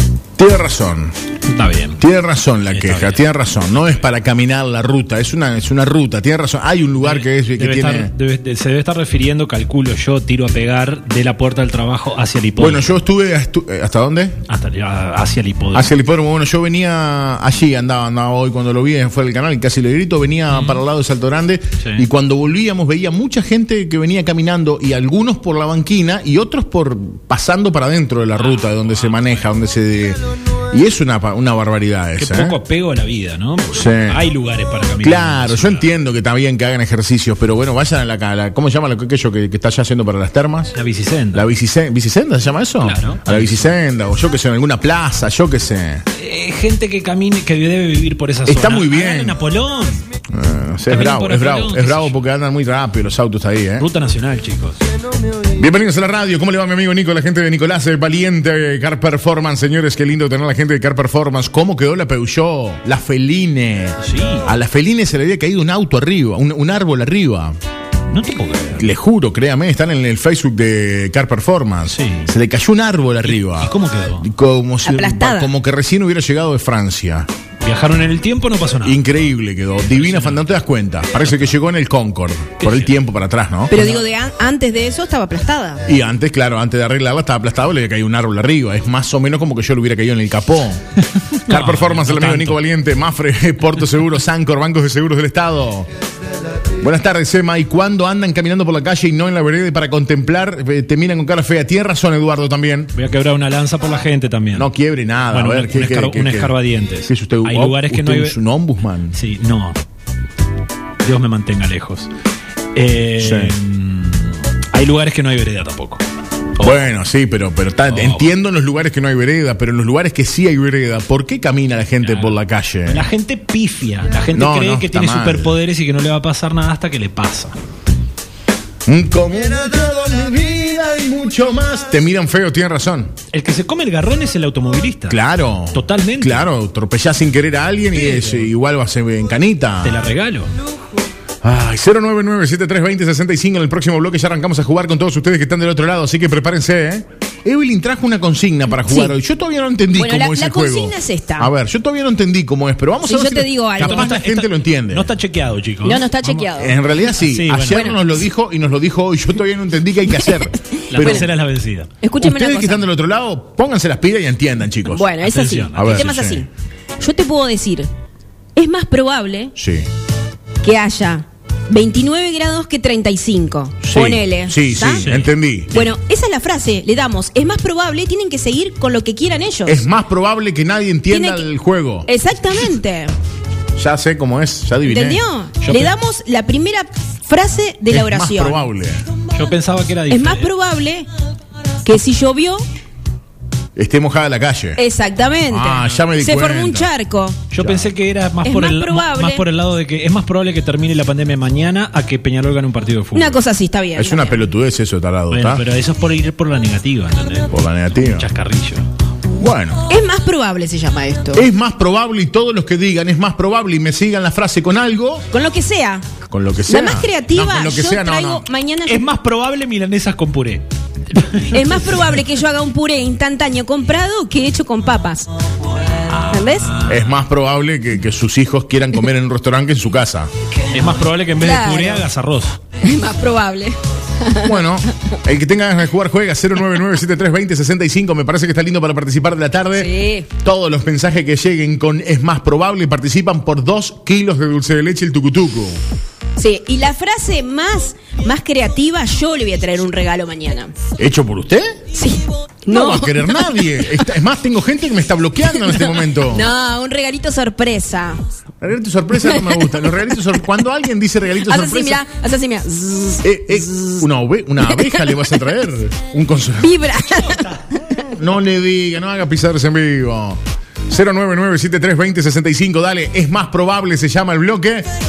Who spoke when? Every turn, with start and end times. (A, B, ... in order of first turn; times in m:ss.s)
0:00.4-0:01.1 A
0:01.5-0:02.0 B
0:02.0-0:08.1 A
0:02.7-0:03.3 B
0:07.0-0:12.9 B
0:12.6-0:14.4 A
0:14.5-0:15.9 B
0:15.7-0:30.2 A
0:20.5-0:20.8 B
0:21.8-0:22.1 B
0:28.4-0:29.4 B
0:30.7-0:32.6 A
0:32.2-0:35.9 B
0:33.7-0:34.2 A
0:35.0-0:40.8 A
0:40.8-0:41.5 B
0:41.3-0:46.0 A
0:42.8-0:43.7 B
0:46.2-0:50.0 B
0:48.4-0:49.4 A
0:50.3-0:53.9 A
0:50.9-0:52.2 B
0:53.8-0:54.8 B
0:55.6-1:07.6 A
1:04.0-1:04.5 B
1:08.1-1:08.9 B
1:08.8-1:17.3 A
1:11.9-1:12.3 B
1:13.2-1:14.3 B
1:14.8-1:15.5 C
1:17.6-1:19.0 B
1:18.8-1:24.0 A
1:19.9-1:20.5 B
1:21.2-1:21.5 B
1:22.6-1:22.9 B
1:23.7-1:25.9 C
1:25.9-1:30.8 A
1:31.2-1:32.6 B
1:31.5-1:35.9 A
1:36.8-1:42.9 A
1:43.0-1:44.7 B
1:44.5-1:46.6 A
1:45.3-1:48.4 B
1:47.1-1:49.2 A
1:49.1-1:49.8 B
1:51.0-1:52.1 B
1:52.8-1:56.0 B
1:53.2-1:53.6 A
1:56.6-2:03.1 A
1:57.9-1:58.3 B
2:02.0-2:07.6 B
2:04.3-2:05.5 A
2:08.9-2:13.1 A
2:13.3-2:15.2 B
2:15.1-2:20.0 A
2:15.7-2:16.5 B
2:17.9-2:18.5 B
2:19.8-2:20.5 B
2:21.4-2:35.1 A
2:28.7-2:29.2 C
2:29.9-2:31.5 C
2:33.0-2:34.2 C
2:33.8-2:38.0 B
2:35.8-2:36.8 C
2:36.6-2:41.3 A
2:37.7-2:38.0 C
2:40.1-2:41.3 C
2:40.9-2:41.9 B
2:42.0-2:42.9 C
2:42.2-2:45.1 A
2:44.8-2:46.5 C
2:45.2-2:46.1 B
2:45.7-2:46.4 A
2:47.0-2:47.9 C
2:48.6-2:49.5 C
2:49.6-2:49.9 A
2:50.6-2:59.8 C
2:53.8-2:55.8 A
2:54.9-2:55.3 B
2:59.7-3:02.1 A
3:01.1-3:01.4 C
3:02.1-3:03.2 C
3:03.8-3:05.2 A
3:04.8-3:08.7 C
3:05.6-3:06.0 B
3:07.9-3:09.1 A
3:09.3-3:10.5 B
3:10.1-3:11.1 C
3:11.8-3:12.6 C
3:13.8-3:14.8 A
3:14.8-3:17.4 C
3:15.5-3:16.9 A
3:17.5-3:23.4 B
3:17.6-3:17.9 A
3:18.4-3:19.4 C
3:23.2-3:24.4 C
3:24.0-3:25.6 A
3:25.3-3:28.9 B
3:27.5-3:28.3 A
3:29.4-3:29.9 A
3:29.9-3:31.5 C
3:31.3-3:35.2 A
3:35.3-3:36.1 C
3:36.3-3:38.5 A
3:36.7-3:39.0 C
3:38.9-3:42.2 B
3:41.5-3:45.3 C
3:46.1-3:47.0 B
3:46.3-3:46.8 C
3:46.8-3:50.3 A
3:50.7-3:52.6 B
3:51.4-3:52.1 C
3:52.8-3:54.6 C
3:54.4-4:05.8 A
3:59.7-4:00.3 C
4:06.4-4:10.7 C
4:11.0-4:11.7 A
4:11.9-4:14.2 C
4:12.7-4:16.5 A
4:15.5-4:18.3 C
4:18.6-4:22.0 A
4:19.2-4:20.4 C
4:21.3-4:24.1 C
4:23.2-4:26.7 A
4:24.6-4:25.4 C
4:26.6-4:28.0 C
4:28.0-4:34.9 A